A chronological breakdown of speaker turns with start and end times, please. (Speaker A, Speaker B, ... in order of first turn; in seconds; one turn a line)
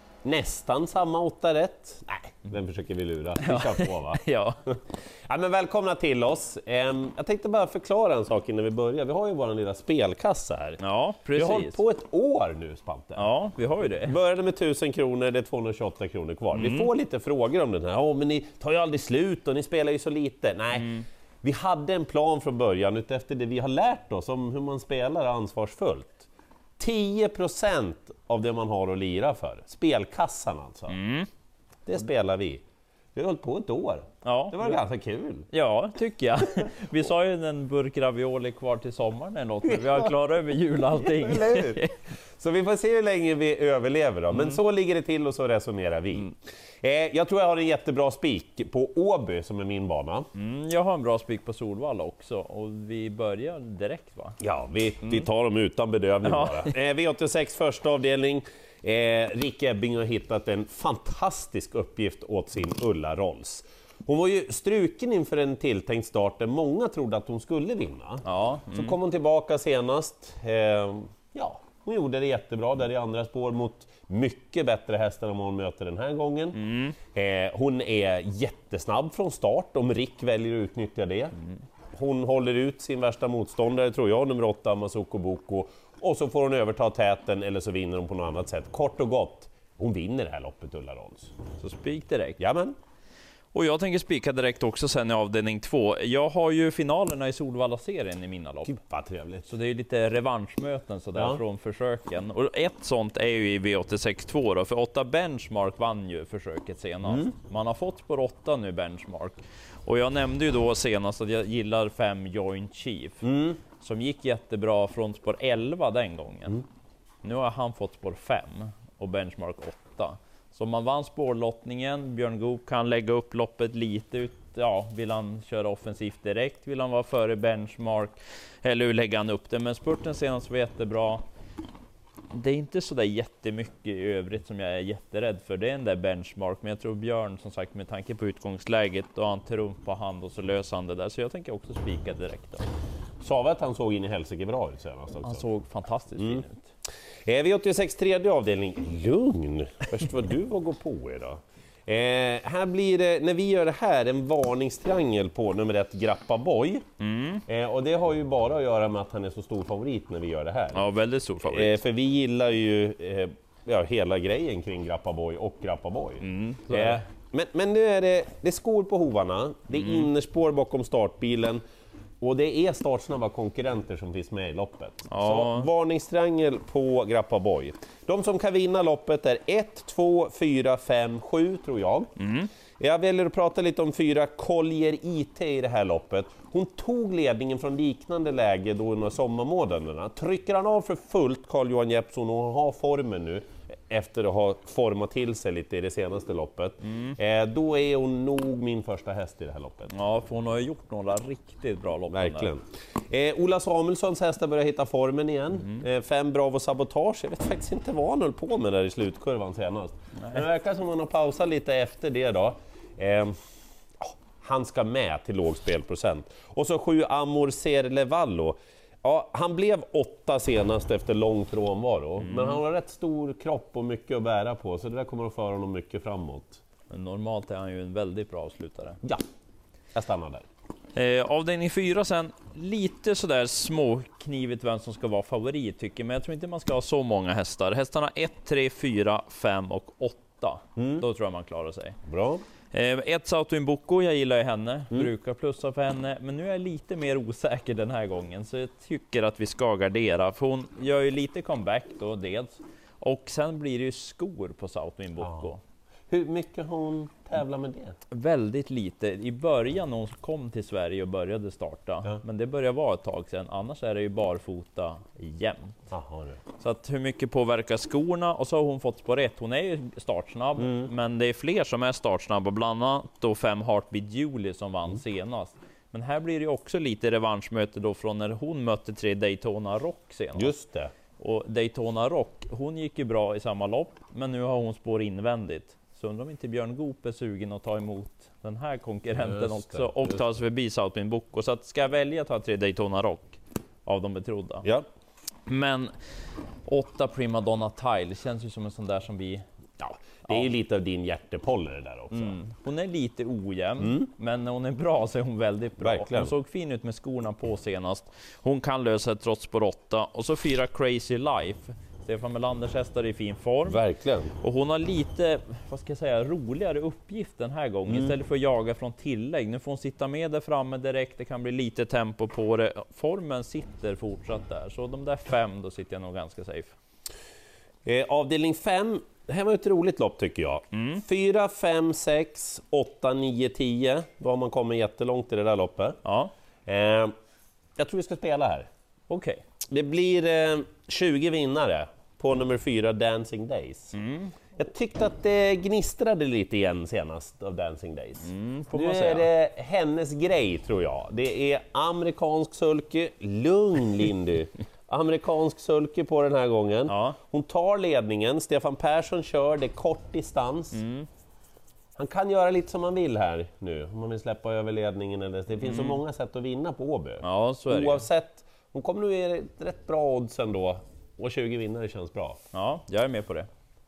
Speaker A: 0.2-10.8
Speaker B: 3.4-4.6
Speaker B: 10.8-11.8
Speaker A: 11.3-13.3
Speaker B: 13.2-14.1
Speaker A: 14.0-31.0
Speaker B: 16.5-16.9
Speaker B: 20.8-21.0
Speaker B: 30.9-31.3
Speaker A: 31.9-32.6
Speaker A: 33.1-35.5
Speaker B: 34.2-34.8
Speaker B: 35.5-42.0
Speaker A: 39.6-40.1
Speaker A: 40.9-41.9
Speaker A: 42.4-50.3
Speaker B: 50.3-54.4
Speaker A: 54.4-76.6
Speaker B: 56.2-56.7
Speaker B: 68.2-69.0
Speaker B: 76.5-77.0
Speaker A: 77.1-81.3
Speaker A: 81.9-91.3
Speaker B: 91.6-92.4
Speaker A: 92.4-92.8
Speaker B: 93.5-98.7
Speaker A: 98.7-99.5
Speaker B: 99.5-113.2
Speaker A: 101.1-101.4
Speaker A: 107.0-107.3
Speaker A: 113.2-113.6
Speaker B: 113.8-116.6
Speaker B: 117.2-131.2
Speaker B: 132.3-142.6
Speaker A: 143.2-145.4
Speaker B: 145.2-146.7
Speaker A: 146.2-146.4
Speaker A: 147.2-156.8
Speaker B: 157.0-157.4
Speaker A: 157.5-160.8
Speaker B: 160.7-161.8
Speaker A: 161.4-171.6
Speaker B: 166.2-167.0
Speaker A: 172.2-182.1
Speaker B: 175.1-175.7
Speaker B: 182.2-182.5
Speaker A: 182.8-199.9
Speaker B: 199.9-202.5
Speaker A: 202.1-213.3
Speaker B: 210.2-210.4
Speaker A: 214.0-226.6
Speaker B: 222.2-222.6
Speaker B: 226.9-229.0
Speaker A: 229.9-230.4
Speaker B: 230.9-242.0
Speaker A: 240.8-241.1
Speaker A: 242.1-242.4
Speaker B: 242.7-255.6
Speaker A: 255.2-255.5
Speaker A: 256.1-257.9
Speaker B: 258.1-265.8
Speaker A: 265.9-266.4
Speaker B: 266.6-280.5
Speaker A: 270.6-270.9
Speaker A: 280.3-280.9
Speaker B: 281.2-294.7
Speaker A: 289.1-290.4
Speaker B: 295.5-295.9
Speaker B: 296.6-299.4
Speaker A: 299.8-302.4
Speaker B: 302.1-313.8
Speaker A: 303.8-304.1
Speaker A: 305.8-306.3
Speaker A: 313.7-314.3
Speaker B: 314.4-326.7
Speaker A: 317.9-318.1
Speaker A: 327.9-336.0
Speaker B: 330.7-331.0
Speaker B: 336.0-336.3
Speaker A: 336.6-337.1
Speaker A: 337.8-338.7
Speaker B: 339.1-339.4
Speaker A: 339.7-343.9
Speaker B: 343.9-344.4
Speaker A: 344.5-360.8
Speaker B: 348.2-349.3
Speaker B: 356.9-357.2
Speaker B: 360.7-361.1
Speaker A: 361.9-372.4
Speaker B: 365.6-366.0
Speaker B: 367.2-368.1
Speaker B: 372.5-373.5